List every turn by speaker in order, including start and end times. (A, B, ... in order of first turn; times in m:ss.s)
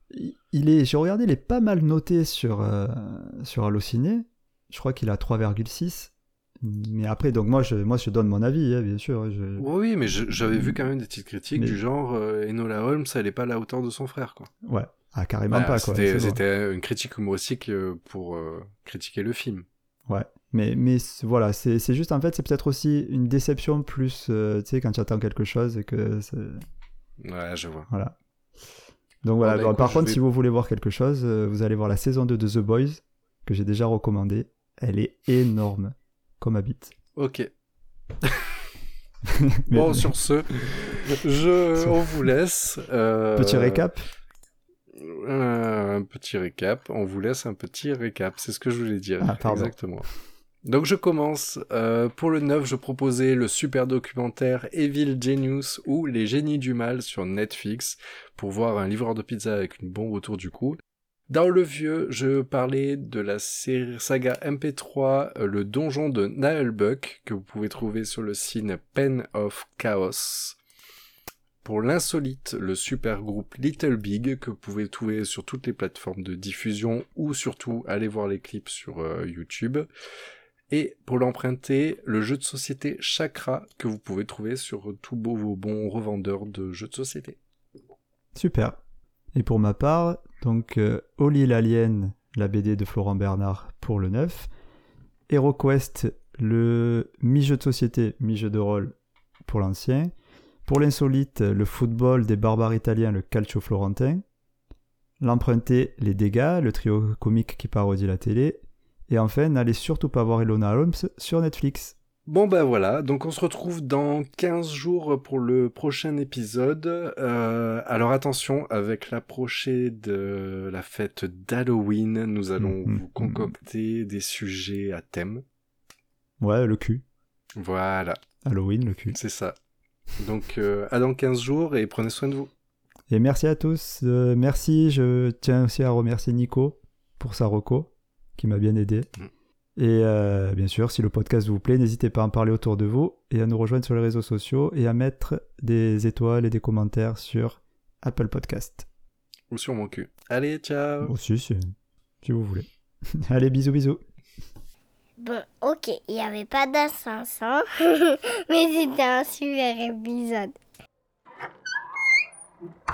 0:00.1-0:09.6 A
0:09.6-0:14.5 B
0:10.3-0:10.7 A
0:14.6-0:16.4 A
0:15.5-0:19.6 B
0:20.1-0:26.6 A
0:27.2-0:27.9 B
0:27.9-0:28.2 A
0:29.2-0:36.9 A
0:29.4-0:30.2 B
0:37.2-0:37.5 B
0:38.2-0:38.6 B
0:39.3-0:40.2 A
0:39.7-0:43.8 B
0:41.8-0:42.2 A
0:43.4-0:44.1 A
0:44.9-0:50.1 B
0:49.2-0:49.7 A
0:50.6-1:00.8 B
1:01.3-1:10.6 B
1:11.6-1:19.8 B
1:20.7-1:27.4 B
1:28.3-1:28.8 A
1:29.3-1:34.5 A
1:35.3-1:40.1 A
1:40.6-1:44.2 A
1:45.2-1:51.9 A
1:52.3-2:05.4 B
2:02.6-2:03.5 A
2:06.4-2:07.0 A
2:07.6-2:08.2 B
2:08.4-2:09.2 A
2:09.1-2:09.6 B
2:10.2-2:12.5 B
2:13.1-2:19.1 A
2:19.8-2:28.8 A
2:29.5-2:31.1 B
2:31.0-2:34.0 A
2:35.2-2:40.6 C